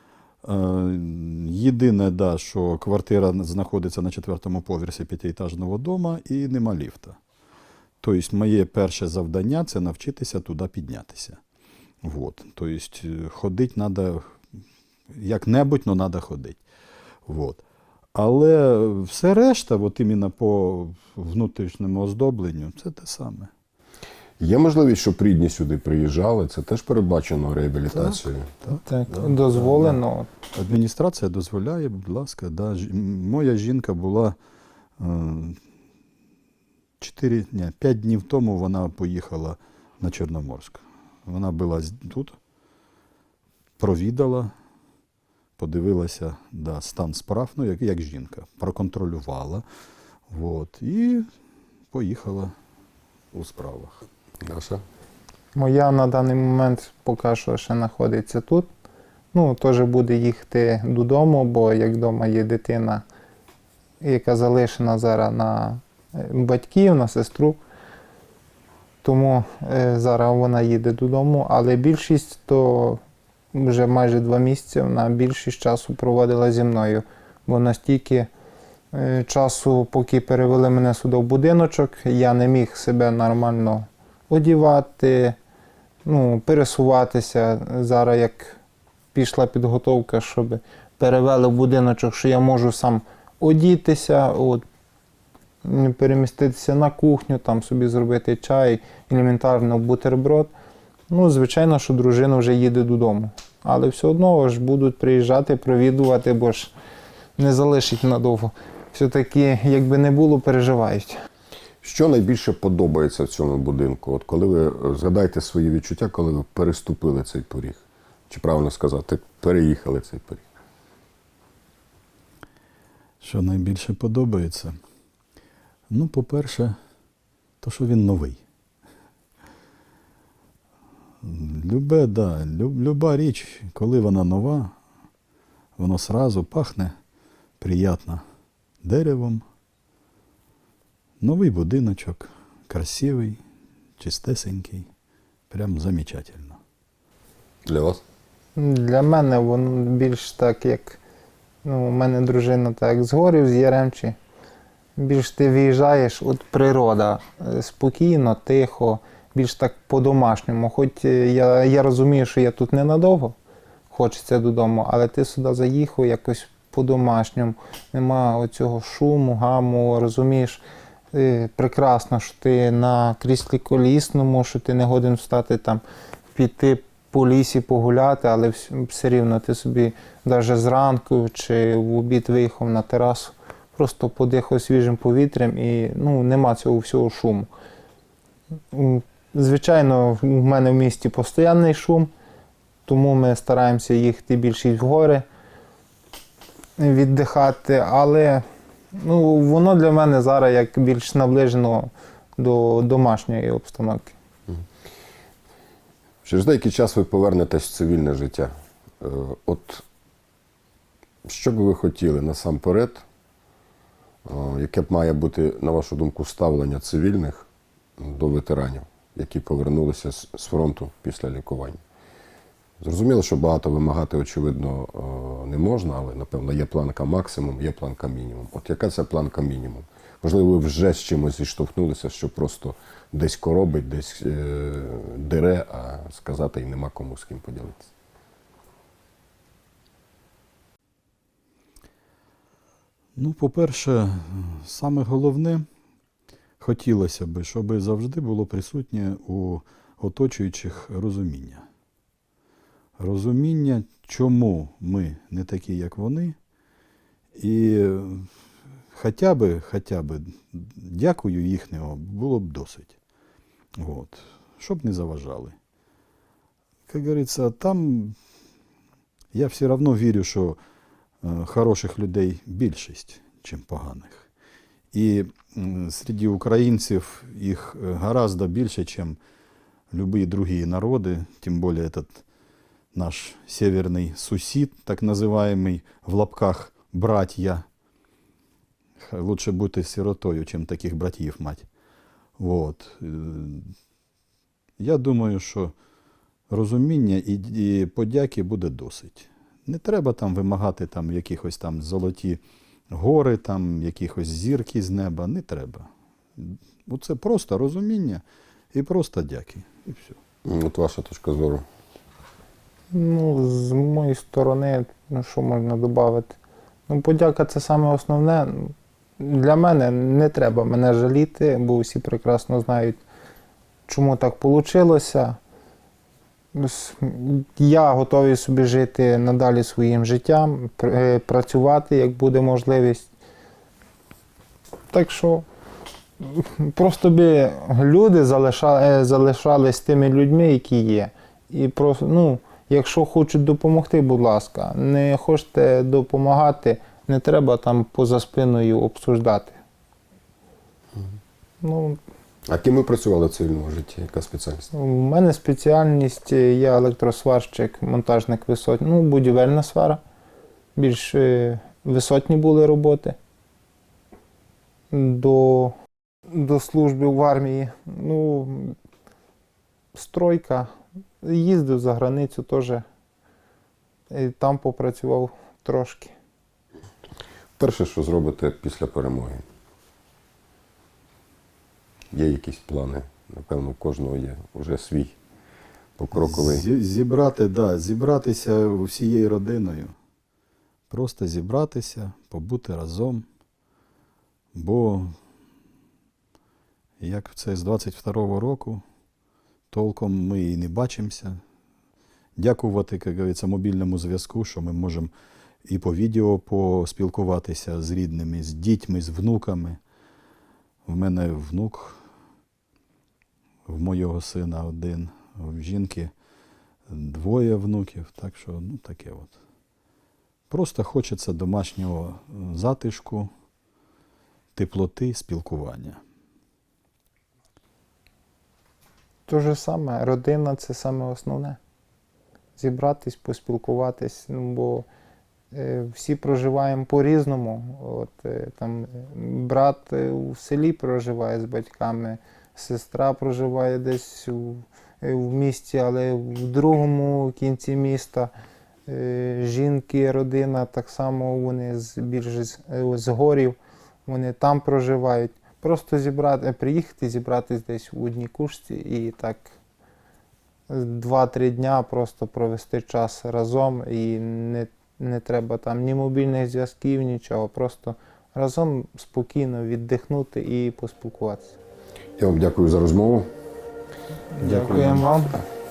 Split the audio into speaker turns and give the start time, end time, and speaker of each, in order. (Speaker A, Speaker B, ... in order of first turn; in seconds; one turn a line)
Speaker A: 0.4-7.2
Speaker A: 8.0-11.4
Speaker A: 12.0-14.2
Speaker A: 15.2-16.6
Speaker A: 17.3-17.6
Speaker A: 18.1-23.5
Speaker B: 24.4-28.4
Speaker C: 28.8-30.3
Speaker A: 29.1-30.0
Speaker A: 30.6-34.3
Speaker A: 35.0-35.5
Speaker A: 37.0-42.3
Speaker A: 43.8-44.5
Speaker A: 45.6-49.6
Speaker A: 50.3-51.2
Speaker A: 51.9-52.5
Speaker A: 53.3-53.9
Speaker B: 54.4-54.8
Speaker C: 55.5-58.7
Speaker C: 59.3-63.0
Speaker C: 64.0-67.6
Speaker C: 69.0-73.0
Speaker C: 73.5-78.3
Speaker C: 78.9-85.4
Speaker C: 86.0-88.6
Speaker C: 89.1-94.6
Speaker C: 95.6-100.5
Speaker C: 101.1-106.7
Speaker C: 107.4-111.2
Speaker B: 111.8-120.4
Speaker A: 123.2-124.7
Speaker A: 125.9-126.7
Speaker A: 127.6-128.3
Speaker A: 131.4-134.7
Speaker A: 135.8-136.9
Speaker A: 137.6-138.2
Speaker A: 138.8-139.4
Speaker A: 141.2-142.2
Speaker A: 142.7-143.3
Speaker A: 144.0-144.8
Speaker A: 145.5-146.3
Speaker B: 147.7-148.0
Speaker C: 148.5-151.0
Speaker C: 151.6-154.2
Speaker C: 155.0-163.3
Speaker C: 163.9-170.6
Speaker C: 171.1-175.8
Speaker C: 176.3-187.5
Speaker C: 188.7-192.1
Speaker C: 192.8-195.2
Speaker C: 196.8-198.4
Speaker C: 198.9-204.1
Speaker B: 206.2-209.8
Speaker B: 211.2-213.0
Speaker B: 214.2-217.4
Speaker B: 218.0-221.8
Speaker B: 222.8-237.9
Speaker A: 243.2-245.6
Speaker A: 246.6-251.6
Speaker A: 253.0-256.3
Speaker A: 257.4-258.1
Speaker A: 259.0-262.9
Speaker A: 263.8-265.5
Speaker A: 266.9-268.1
Speaker A: 269.3-270.6
Speaker A: 271.2-274.2
Speaker A: 274.9-279.2
Speaker A: 279.9-282.2
Speaker A: 282.9-287.6
Speaker A: 289.0-291.6
Speaker A: 292.4-293.6
Speaker A: 294.8-295.7
Speaker A: 296.5-302.4
Speaker A: 302.9-305.8
Speaker A: 306.9-308.2
Speaker A: 308.7-310.1
Speaker B: 310.4-311.6
Speaker C: 312.9-316.4
Speaker C: 316.9-323.0
Speaker C: 323.9-325.4
Speaker C: 326.5-333.1
Speaker C: 334.9-335.4
Speaker C: 336.2-349.6
Speaker C: 351.6-352.0
Speaker B: 352.5-354.7
Speaker C: 354.7-360.0
Speaker C: 360.7-363.1
Speaker C: 364.9-365.7
Speaker C: 366.3-368.8
Speaker C: 369.9-370.7
Speaker C: 371.2-372.8
Speaker C: 374.1-376.1
Speaker B: 377.6-379.4
Speaker B: 382.1-385.1
Speaker B: 386.0-386.7
Speaker A: 386.1-389.9
Speaker A: 390.9-393.2
Speaker A: 394.5-395.1
Speaker A: 397.0-398.8
Speaker A: 399.7-401.4
Speaker A: 402.4-405.1
Speaker A: 405.7-409.8
Speaker A: 410.9-411.9
Speaker A: 413.7-416.1
Speaker A: 416.9-419.3
Speaker A: 420.5-423.3
Speaker A: 424.6-425.9
Speaker C: 429.3-431.6
Speaker C: 432.6-434.9
Speaker C: 435.5-448.3
Speaker C: 448.9-459.5
Speaker C: 460.7-471.5
Speaker B: 472.2-473.3
Speaker C: 474.4-475.4
Speaker A: 474.4-475.1